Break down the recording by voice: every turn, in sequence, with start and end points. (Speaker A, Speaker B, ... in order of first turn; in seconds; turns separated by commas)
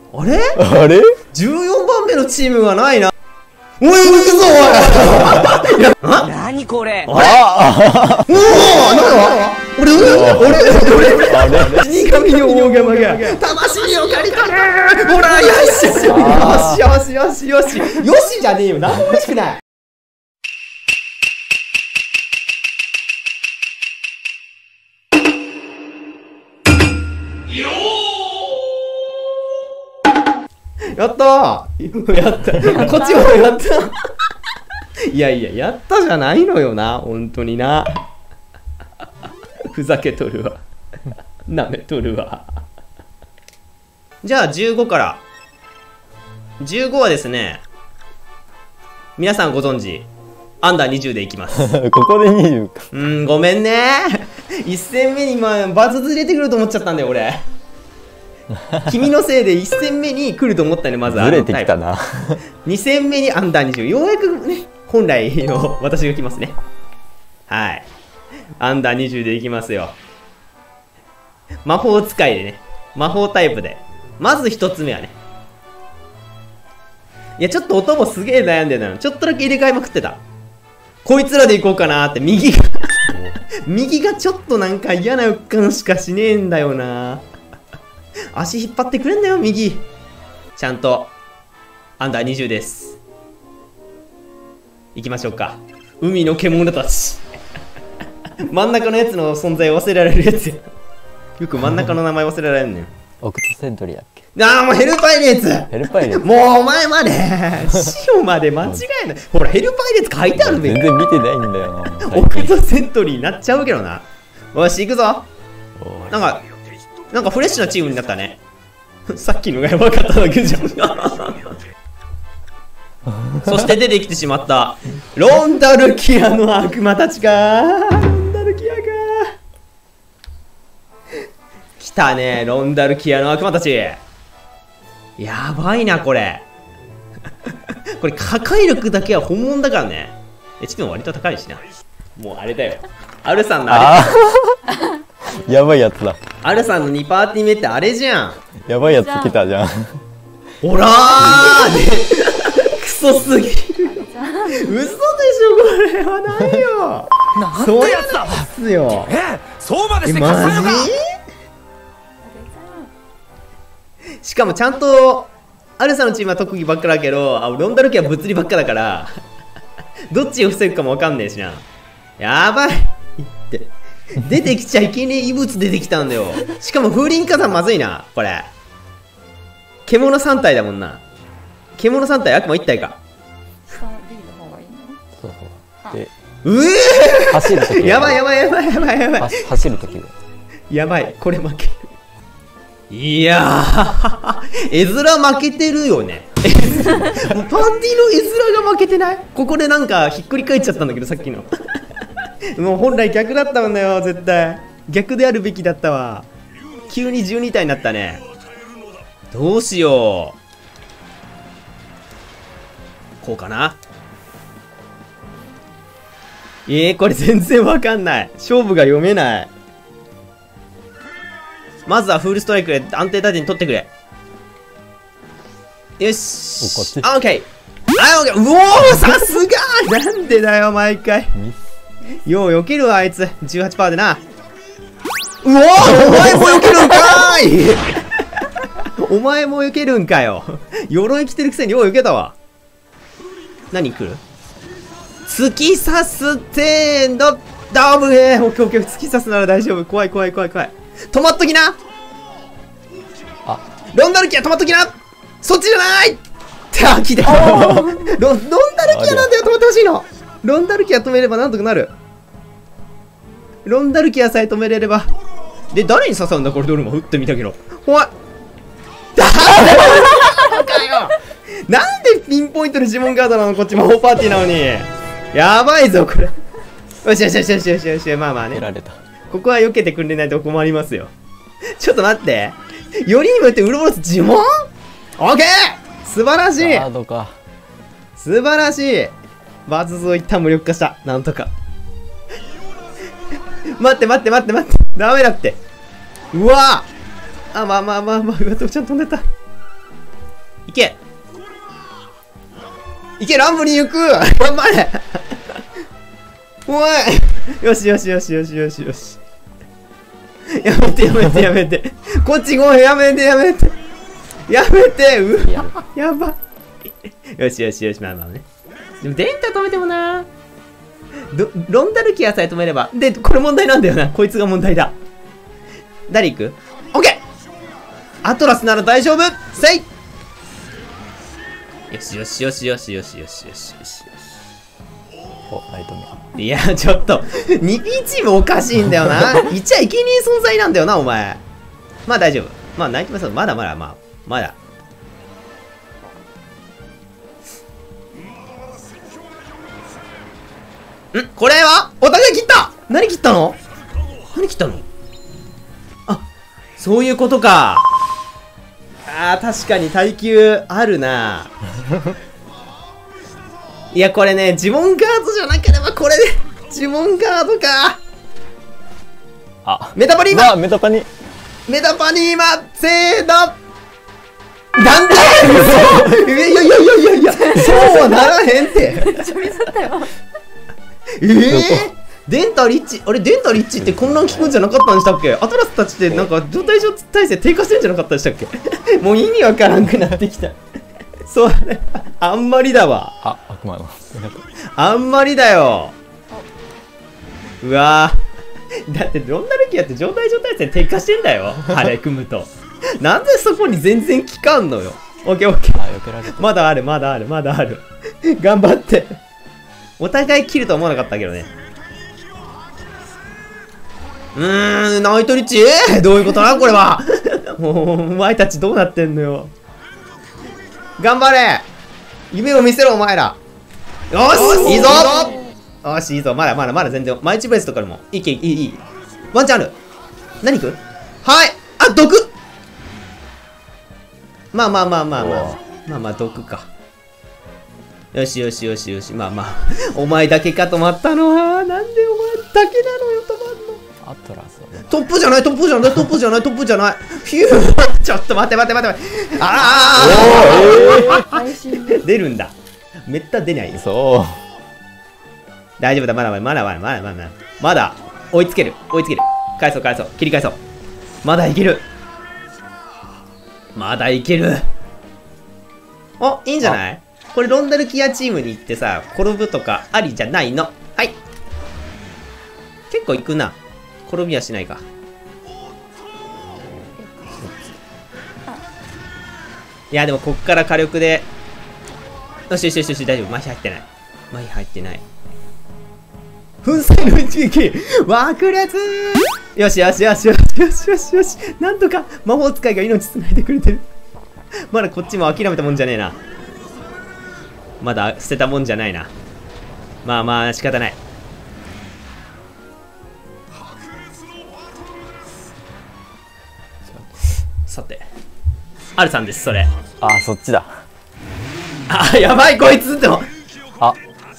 Speaker A: 0.1-0.6, Speaker B: 0.6-1.2, Speaker A: 1.3-3.1, Speaker A: 3.8-6.3, Speaker C: 6.1-7.1, Speaker A: 7.1-7.4, Speaker B: 7.1-8.7, Speaker A: 8.3-19.6, Speaker B: 9.9-12.1, Speaker C: 14.7-15.6, Speaker B: 16.0-16.9, Speaker A: 30.9-34.0, Speaker D: 32.7-33.4, Speaker A: 35.1-38.0, Speaker A: 39.7-40.6, Speaker A: 41.5-42.5, Speaker A: 44.2-45.2, Speaker A: 46.6-47.6, Speaker A: 49.2-50.1, Speaker A: 50.6-51.7, Speaker B: 51.5-52.9, Speaker A: 52.9-57.4, Speaker A: 58.8-61.7, Speaker B: 61.0-62.4, Speaker A: 62.6-66.5, Speaker A: 67.5-67.9, Speaker A: 68.6-70.0, Speaker A: 71.6-75.2, Speaker A: 77.4-80.2, Speaker A: 81.0-87.2, Speaker B: 83.1-83.3, Speaker A: 88.3-89.8, Speaker A: 90.6-91.1, Speaker A: 92.0-93.0, Speaker A: 94.9-97.2, Speaker A: 98.5-100.7, Speaker A: 101.4-102.9, Speaker B: 103.2-104.2, Speaker A: 104.3-110.9, Speaker B: 105.7-106.3, Speaker B: 110.3-112.5, Speaker A: 112.0-115.3, Speaker B: 115.8-116.2, Speaker A: 116.1-116.4, Speaker A: 117.1-118.4, Speaker A: 119.1-121.5, Speaker A: 123.4-129.3, Speaker A: 131.8-134.0, Speaker A: 135.2-136.4, Speaker A: 137.9-141.6, Speaker A: 142.2-144.1, Speaker B: 143.7-144.6, Speaker B: 145.3-146.2, Speaker A: 146.4-148.4, Speaker B: 148.7-150.0, Speaker D: 148.7-149.5, Speaker A: 150.6-159.1, Speaker D: 153.8-154.9, Speaker C: 157.3-160.9, Speaker A: 160.0-161.0, Speaker D: 162.2-162.9, Speaker A: 164.2-169.1, Speaker A: 170.1-171.6, Speaker A: 172.2-178.5, Speaker A: 179.8-181.0, Speaker A: 181.8-183.0, Speaker D: 183.7-185.0, Speaker B: 185.2-186.1, Speaker A: 186.4-189.4, Speaker B: 187.3-188.2, Speaker B: 189.2-190.1, Speaker A: 190.7-191.9, Speaker A: 192.9-201.5, Speaker A: 202.5-206.3, Speaker A: 206.9-208.2, Speaker A: 209.3-210.4, Speaker A: 213.2-213.8, Speaker A: 216.7-219.5, Speaker A: 221.8-223.9, Speaker A: 226.0-231.3, Speaker B: 226.6-227.1, Speaker A: 232.2-234.2, Speaker A: 235.4-238.0, Speaker A: 238.8-242.3, Speaker A: 243.7-244.2, Speaker A: 245.3-251.8, Speaker A: 253.9-261.9, Speaker D: 257.4-258.0, Speaker B: 258.8-259.3, Speaker A: 263.6-265.1, Speaker A: 265.7-268.1, Speaker A: 269.1-276.3, Speaker A: 277.0-278.6, Speaker B: 278.5-279.0, Speaker A: 279.3-281.1, Speaker A: 281.8-284.6, Speaker A: 285.2-286.9, Speaker B: 286.6-287.3, Speaker A: 288.2-289.1, Speaker A: 289.6-291.5, Speaker A: 293.7-295.6, Speaker A: 296.3-296.9, Speaker A: 297.5-299.2, Speaker A: 300.7-301.0, Speaker A: 303.2-305.4, Speaker A: 306.7-309.2, Speaker A: 310.5-313.8, Speaker A: 314.5-316.4, Speaker B: 315.4-315.9, Speaker A: 317.3-318.4, Speaker A: 319.0-320.3, Speaker A: 321.3-324.9, Speaker A: 326.1-327.2, Speaker A: 328.2-329.9, Speaker A: 331.9-334.1, Speaker B: 335.5-336.3, Speaker A: 336.4-341.4, Speaker A: 342.1-344.6, Speaker A: 351.1-353.6, Speaker A: 354.3-354.9, Speaker A: 356.8-357.9, Speaker A: 359.1-361.5, Speaker A: 363.9-368.0, Speaker B: 369.6-371.1, Speaker A: 369.8-370.5, Speaker A: 371.7-373.6, Speaker A: 374.8-379.2, Speaker D: 377.4-380.1, Speaker A: 381.2-390.6, Speaker B: 381.5-381.9, Speaker B: 383.8-384.5, Speaker A: 391.2-393.1, Speaker B: 393.2-394.4, Speaker A: 394.7-395.9, Speaker A: 397.6-398.2, Speaker A: 398.9-409.2, Speaker B: 405.7-406.5, Speaker A: 410.0-411.5, Speaker A: 414.3-419.5, Speaker A: 421.0-421.6, Speaker A: 422.3-423.4, Speaker A: 424.1-429.8, Speaker D: 424.4-425.5, Speaker A: 430.4-432.3, Speaker A: 434.5-436.7, Speaker B: 435.2-435.6, Speaker A: 438.1-443.8, Speaker B: 444.0-445.0, Speaker A: 444.9-452.5, Speaker B: 449.9-451.2, Speaker D: 450.1-452.0, Speaker A: 453.1-453.8, Speaker B: 453.7-454.4, Speaker A: 455.8-460.6, Speaker A: 461.2-461.9, Speaker A: 463.7-464.6, Speaker A: 466.2-471.2, Speaker A: 472.9-474.8, Speaker D: 477.0-477.5, Speaker A: 479.9-481.3, Speaker A: 482.5-485.0, Speaker A: 486.6-493.8, Speaker A: 494.7-496.1, Speaker A: 497.8-499.1, Speaker A: 500.0-501.0, Speaker A: 507.7-508.1, Speaker A: 508.9-509.7, Speaker B: 510.0-510.8, Speaker A: 511.9-513.3